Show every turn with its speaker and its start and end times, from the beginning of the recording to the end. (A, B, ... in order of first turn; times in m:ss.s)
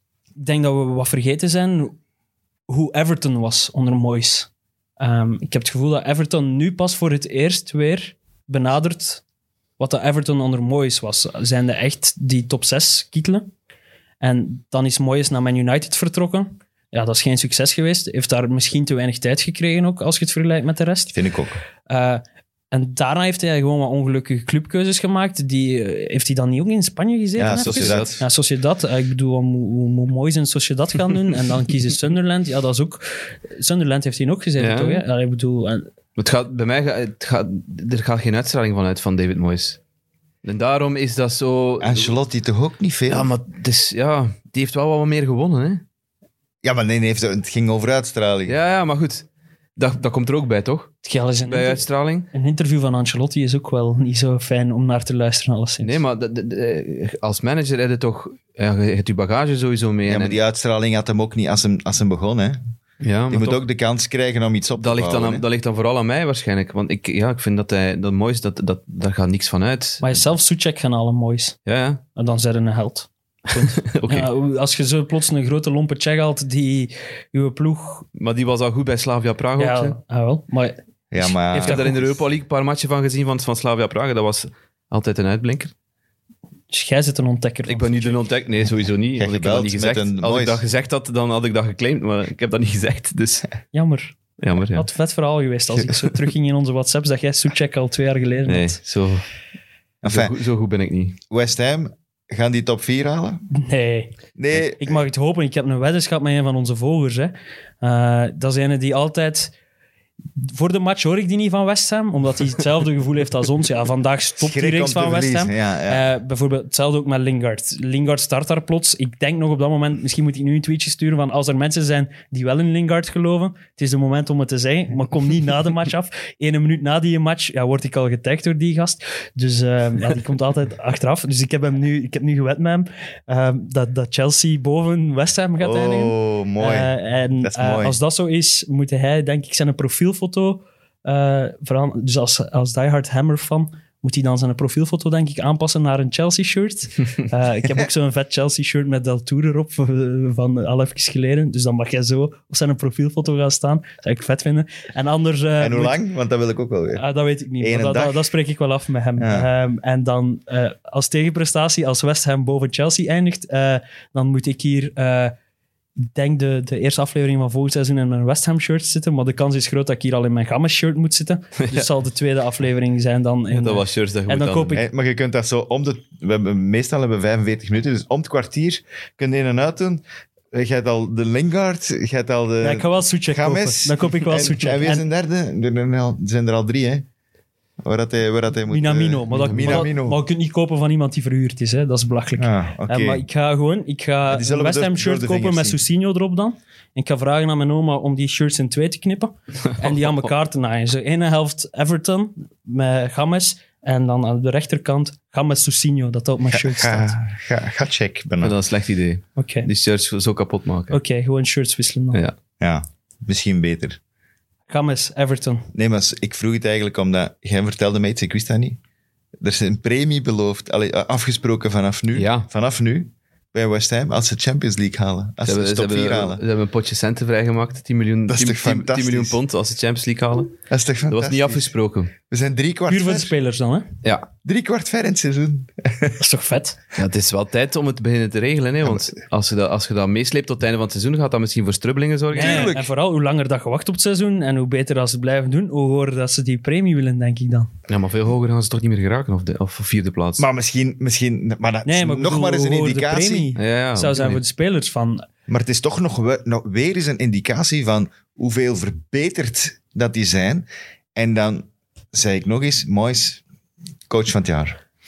0:00.4-0:01.9 A
0:02.7-0:09.2 A
0:09.8-0:13.5 A
0:14.2-0:21.1 A
0:21.1-0:21.6 B
0:21.9-0:35.9 A
0:27.4-0:28.2 B
0:27.6-0:28.2 C
0:34.6-0:35.0 C
0:36.2-0:39.8 C
0:40.4-0:42.1 C
0:41.8-0:43.3 B
0:43.1-0:45.8 C
0:46.6-0:48.6 B
0:48.5-0:52.3 C
0:51.0-0:56.0 A
0:55.8-1:00.4 C
1:00.0-1:02.6 B
1:03.0-1:03.6 C
1:03.3-1:05.4 B
1:04.8-1:10.2 C
1:10.0-1:11.6 A
1:11.6-1:12.0 C
1:12.1-1:18.1 A
1:13.6-1:14.3 C
1:18.1-1:20.0 C
1:19.6-1:22.0 A
1:21.1-1:22.0 B
1:21.6-1:25.7 C
1:26.7-1:28.2 A
1:27.7-1:33.5 C
1:29.2-1:30.6 B
1:33.7-1:34.2 A
1:34.4-1:34.8 C
1:34.7-1:38.8 A
1:38.4-1:39.2 C
1:40.0-1:40.3 B
1:40.0-1:41.2 C
1:41.3-1:43.4 B
1:43.5-1:49.5 A
1:44.4-1:45.0 B
1:50.4-2:36.0 A
1:54.4-1:56.0 B
2:15.6-2:18.0 B
2:35.6-2:37.0 B
2:37.0-2:45.3 A
2:37.6-2:38.2 B
2:39.2-2:39.5 B
2:46.1-2:54.8 A
2:51.6-2:51.8 C
2:53.5-2:54.8 C
2:54.7-3:07.0 B
3:02.6-3:05.0 A
3:07.8-3:10.2 B
3:08.7-3:27.2 A
3:09.5-3:09.8 C
3:12.4-3:13.2 B
3:14.3-3:15.8 B
3:26.5-3:28.6 B
3:28.4-3:31.0 C
3:29.4-3:29.7 A
3:30.9-3:32.2 A
3:32.6-3:34.0 B
3:34.7-3:35.6 A
3:35.7-3:38.8 B
3:39.4-3:46.4 B
3:42.1-3:42.5 C
3:45.4-3:50.6 C
3:48.3-3:49.4 B
3:50.7-3:53.3 B
3:51.1-3:52.1 C
3:52.9-3:53.9 A
3:54.0-3:54.3 C
3:54.4-3:56.2 B
3:56.2-3:56.8 A
3:57.0-4:02.7 C
4:02.3-4:02.9 B
4:02.3-4:07.7 A
4:07.9-4:10.4 C
4:10.4-4:13.5 B
4:11.8-4:15.2 A
4:13.6-4:14.4 C
4:15.5-4:23.4 B
4:24.1-4:24.8 B